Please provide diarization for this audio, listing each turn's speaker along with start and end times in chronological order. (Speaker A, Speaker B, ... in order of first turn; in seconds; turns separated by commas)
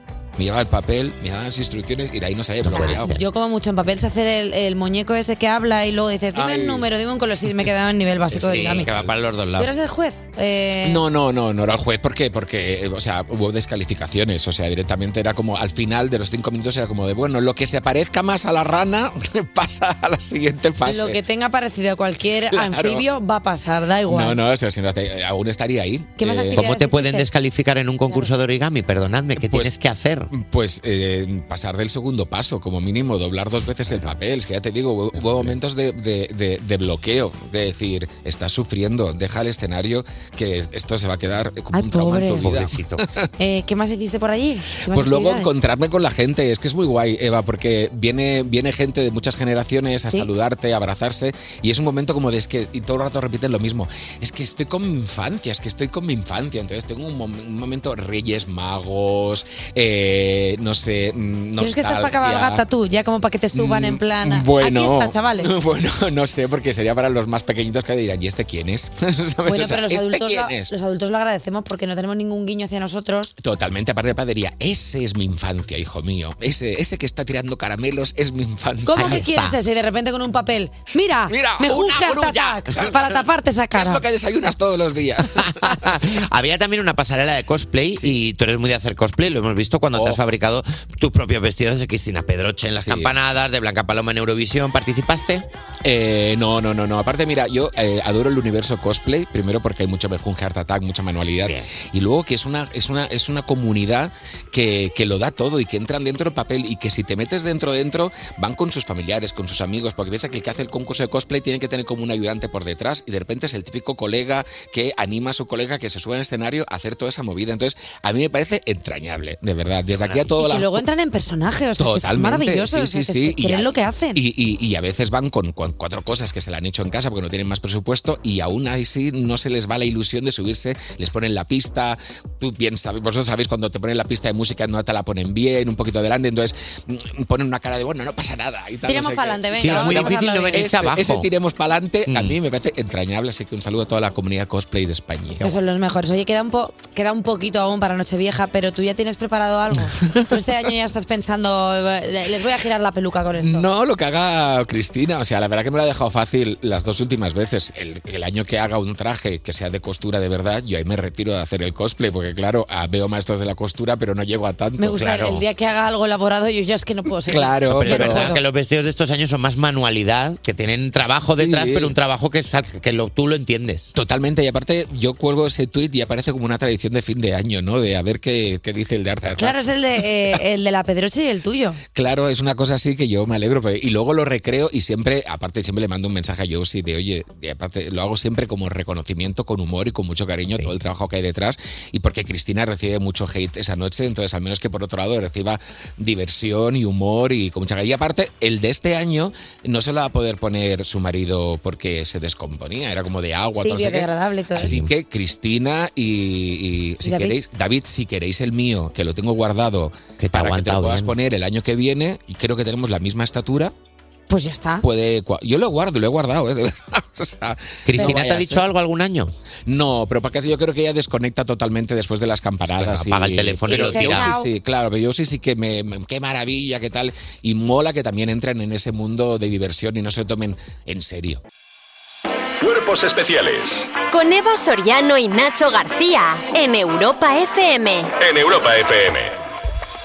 Speaker A: 0.4-3.2, Speaker B: 2.6-3.2, Speaker C: 2.6-8.9, Speaker A: 6.3-6.9, Speaker B: 8.3-9.7, Speaker A: 8.4-9.2, Speaker C: 9.6-11.0, Speaker A: 10.8-21.2, Speaker C: 20.8-24.4, Speaker A: 22.5-23.0, Speaker A: 24.1-26.6, Speaker C: 26.2-27.3, Speaker B: 26.6-30.3, Speaker A: 29.4-29.7, Speaker A: 30.3-43.0, Speaker C: 41.7-42.6, Speaker B: 42.4-43.0, Speaker C: 43.4-45.5, Speaker A: 44.9-62.6, Speaker C: 61.6-65.5, Speaker A: 63.5-70.7, Speaker C: 69.4-73.3, Speaker A: 73.4-79.3, Speaker C: 78.8-84.0, Speaker B: 78.9-79.6, Speaker A: 81.3-83.2, Speaker A: 83.7-86.0, Speaker B: 85.4-95.5, Speaker A: 89.9-90.2, Speaker A: 92.8-93.1, Speaker A: 95.8-120.8, Speaker B: 119.9-120.2, Speaker C: 120.4-124.2, Speaker A: 121.8-145.5, Speaker C: 138.8-140.8, Speaker B: 139.6-141.3, Speaker B: 142.1-142.3, Speaker C: 145.4-153.7, Speaker A: 149.9-150.4, Speaker A: 153.4-165.4, Speaker C: 164.8-168.4, Speaker A: 167.2-168.3, Speaker B: 167.7-173.9, Speaker A: 171.4-171.9, Speaker A: 173.9-179.6, Speaker C: 179.3-181.8, Speaker A: 181.9-213.7, Speaker C: 203.6-204.8, Speaker B: 204.6-204.9, Speaker C: 207.0-207.3, Speaker B: 210.2-211.1, Speaker C: 214.3-214.8, Speaker A: 214.8-218.7, Speaker B: 217.8-219.3, Speaker C: 218.0-218.2, Speaker A: 219.7-231.4, Speaker B: 222.7-224.3, Speaker C: 223.7-224.5, Speaker D: 232.6-233.9, Speaker E: 234.1-238.1, Speaker D: 238.2-239.3